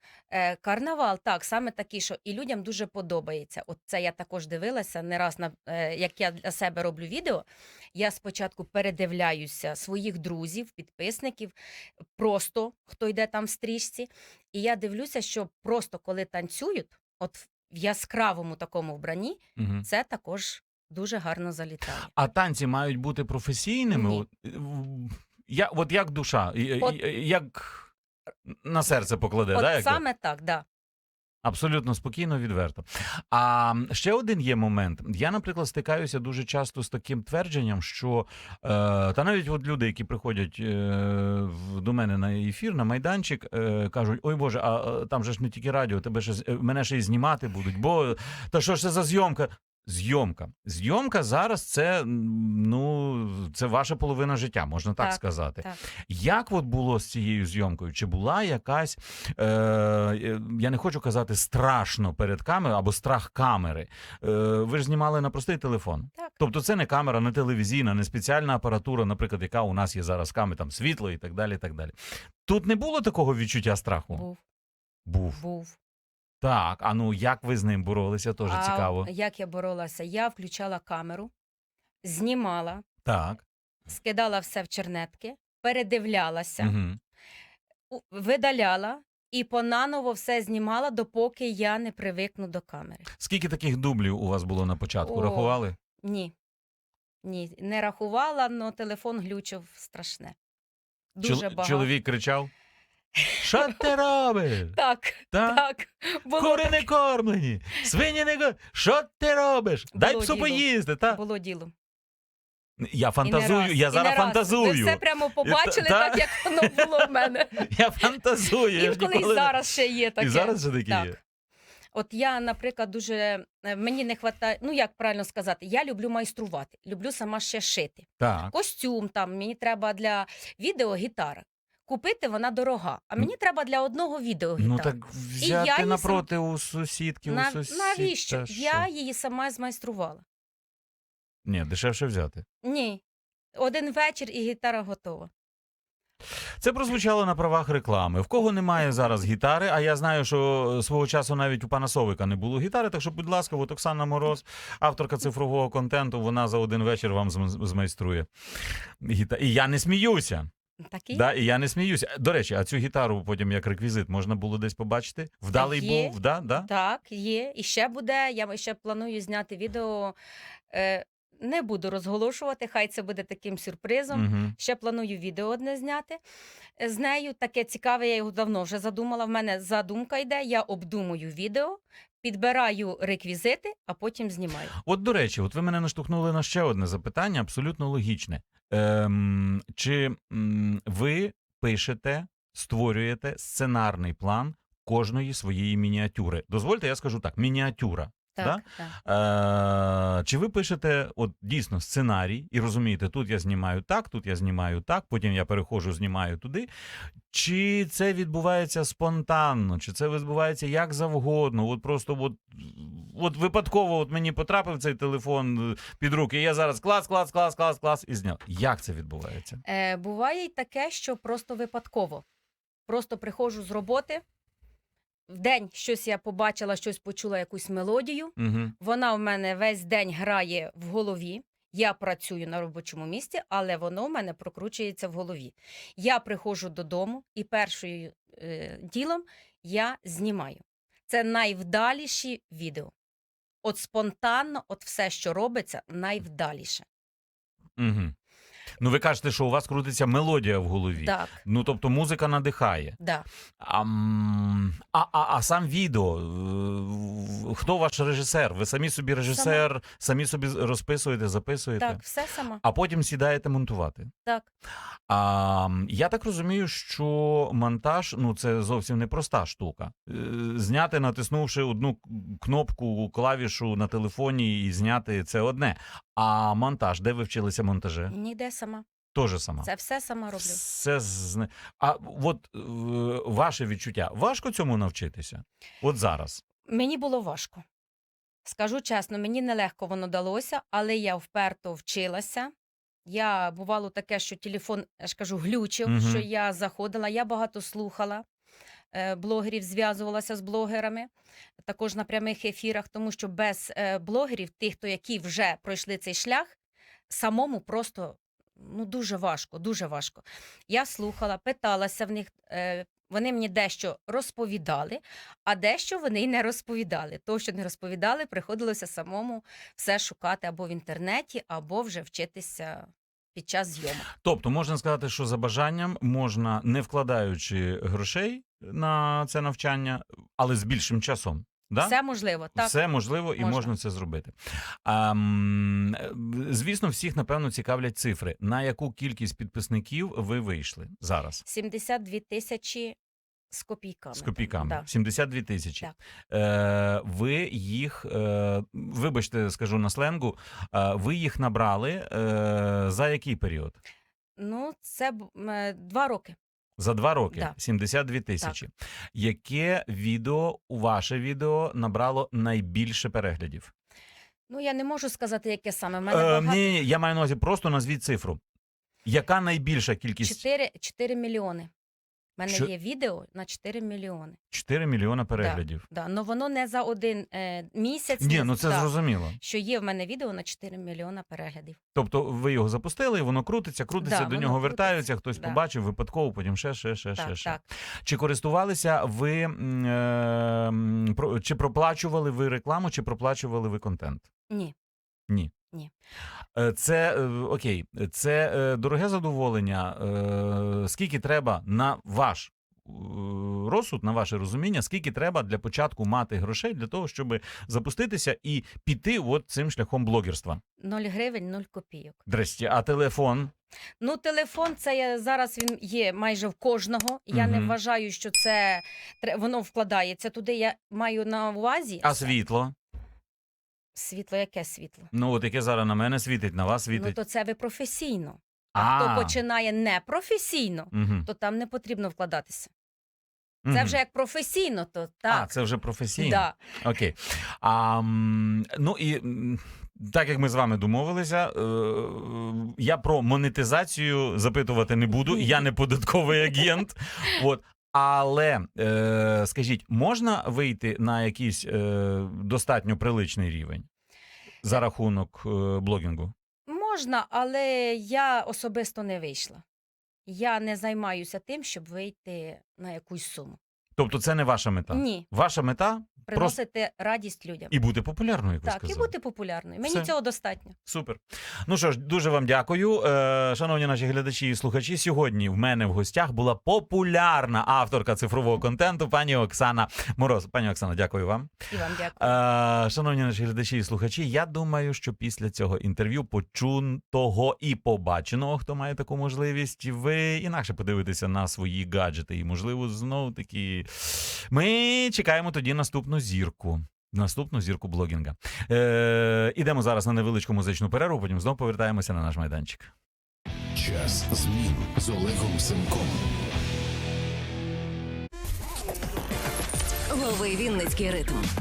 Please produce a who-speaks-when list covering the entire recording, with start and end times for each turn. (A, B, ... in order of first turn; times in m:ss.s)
0:00.3-0:11.5 A
0:12.2-0:22.1 A
0:19.6-0:19.9 B
0:22.1-0:27.9 B
0:23.9-0:24.2 A
0:28.5-0:30.0 B
0:29.5-0:30.6 A
0:31.4-1:11.9 B
0:55.0-0:55.8 A
1:12.4-1:14.2 B
1:14.1-1:14.4 A
1:15.0-1:15.4 B
1:15.3-1:15.8 A
1:16.4-1:19.1 B
1:18.4-1:21.3 A
1:22.0-1:22.8 A
1:23.0-1:23.4 B
1:23.9-1:26.7 A
1:26.6-1:27.0 B
1:27.9-1:33.1 A
1:33.2-1:35.8 B
1:35.0-1:36.3 A
1:37.2-1:40.3 A
1:41.2-1:41.9 A
1:41.2-1:42.5 B
1:43.2-1:43.8 A
1:43.4-1:44.8 B
1:44.7-1:46.8 A
1:45.3-1:45.6 B
1:46.3-1:51.2 B
1:49.9-1:51.7 A
1:52.8-1:59.6 B
1:53.2-1:57.7 A
1:58.7-2:01.2 A
2:00.2-2:01.2 B
2:01.9-2:16.2 A
2:08.2-2:08.5 B
2:14.6-2:18.9 B
2:17.2-2:20.2 A
2:21.4-2:22.4 B
2:22.6-2:23.0 A
2:23.6-2:25.3 A
2:26.6-2:38.3 B
2:39.0-2:40.5 B
2:40.9-2:41.3 A
2:41.1-2:46.7 B
2:45.5-2:50.2 A
2:50.7-2:56.2 A
2:54.1-2:54.5 B
2:56.8-3:04.7 A
3:04.8-3:26.7 B
3:18.4-3:19.0 A
3:27.3-3:39.6 B
3:39.6-3:42.2 A
3:42.9-3:44.2 A
3:45.3-4:02.9 A
3:48.4-3:48.7 B
4:03.6-4:06.8 A
4:07.8-4:08.1 B
4:08.8-4:13.0 B
4:11.0-4:11.4 A
4:13.0-4:13.3 A
4:13.6-4:22.0 B
4:19.3-4:19.6 A
4:21.8-4:22.6 A
4:22.6-4:24.1 B
4:25.1-4:38.1 B
4:38.1-4:38.8 A
4:39.1-4:39.7 B
4:39.6-4:40.6 A
4:40.4-4:46.4 B
4:46.6-4:47.6 A
4:48.4-4:52.5 A
4:53.0-4:58.2 A
4:55.8-4:56.2 B
4:58.9-5:01.1 A
5:01.6-5:06.5 A
5:07.1-5:24.1 A
5:24.1-5:32.0 B
5:31.8-5:32.7 A
5:32.6-5:34.3 B
5:33.4-5:33.7 A
5:34.8-5:41.4 B
5:41.4-5:43.0 A
5:43.5-5:44.9 A
5:44.1-5:53.8 B
5:54.4-5:56.4 A
5:56.8-6:03.7 B
6:04.5-6:06.7 A
6:06.1-6:08.4 B
6:09.0-6:10.4 B
6:10.2-6:11.7 A
6:12.4-6:14.4 A
6:14.5-6:15.8 B
6:15.4-6:21.8 A
6:18.2-6:19.4 B
6:21.9-6:34.3 B
6:24.0-6:25.6 A
6:27.2-6:27.6 A
6:35.3-6:35.5 B
6:36.5-6:50.6 B
6:50.8-6:52.2 A
6:52.3-6:53.5 B
6:54.0-7:02.3 A
6:57.3-6:57.7 B
7:02.0-7:02.7 B
7:03.9-7:05.1 A
7:05.1-7:07.2 B
7:06.9-7:12.7 A
7:08.7-7:09.4 B
7:10.9-7:11.3 B
7:13.6-7:14.0 B
7:13.7-7:15.5 A
7:15.3-7:33.8 B
7:16.2-7:16.6 A
7:25.3-7:25.6 A
7:34.6-7:36.3 B
7:36.7-7:39.6 A
7:40.2-7:43.6 A
7:44.0-7:46.6 B
7:44.9-7:45.3 A
7:46.3-7:47.7 A
7:47.7-7:49.1 B
7:48.6-7:50.8 A
7:49.8-7:50.1 B
7:50.8-8:01.5 B
8:01.7-8:02.4 A
8:02.2-8:22.9 B
8:23.8-8:26.2 C
8:30.1-8:31.5 A